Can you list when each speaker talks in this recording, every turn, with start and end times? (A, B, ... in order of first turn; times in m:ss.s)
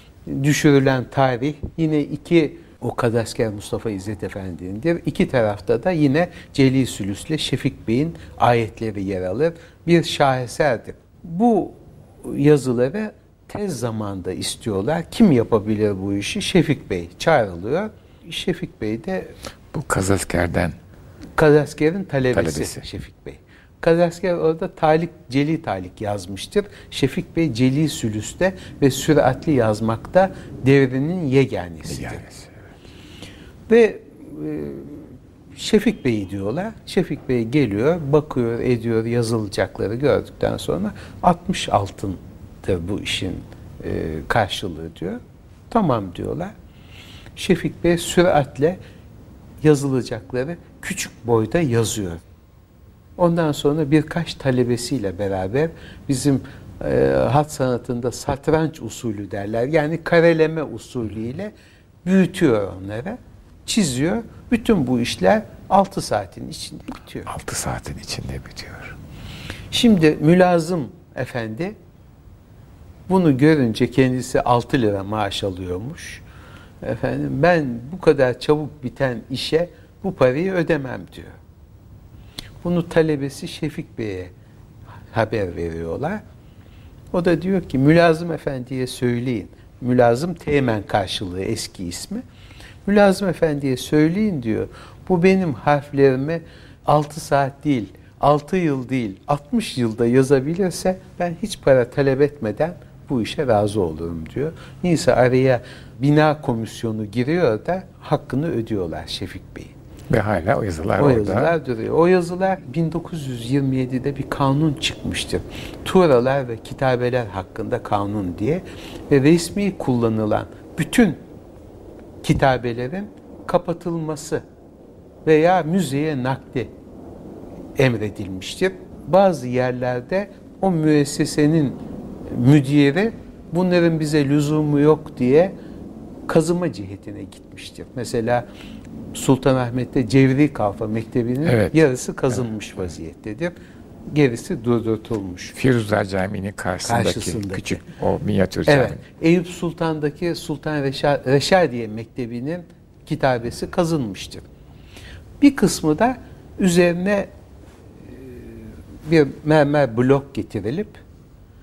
0:00.2-0:19.4 A
0:19.7-0:20.8 B
0:21.4-0:32.2 A
0:22.3-0:22.9 B
0:31.9-0:32.7 B
0:33.7-0:46.5 A
0:47.4-0:48.8 A
0:49.6-0:52.2 A
0:53.2-1:01.5 A
1:02.0-1:07.3 A
1:07.2-1:09.0 B
1:09.7-1:11.8 A
1:13.1-1:16.2 A
1:16.8-1:21.4 A
1:22.6-1:24.3 A
1:25.1-1:26.2 A
1:27.1-1:32.2 A
1:32.8-1:49.7 A
1:50.1-1:51.5 B
1:51.0-2:01.2 A
2:02.2-2:04.4 A
2:05.2-2:06.7 A
2:07.8-2:15.5 A
2:16.3-2:18.5 A
2:19.1-2:23.5 A
2:21.4-2:21.8 B
2:24.1-2:25.5 A
2:25.5-2:29.0 B
2:26.8-2:27.8 A
2:28.7-2:34.5 A
2:35.4-2:37.3 A
2:38.1-2:41.0 A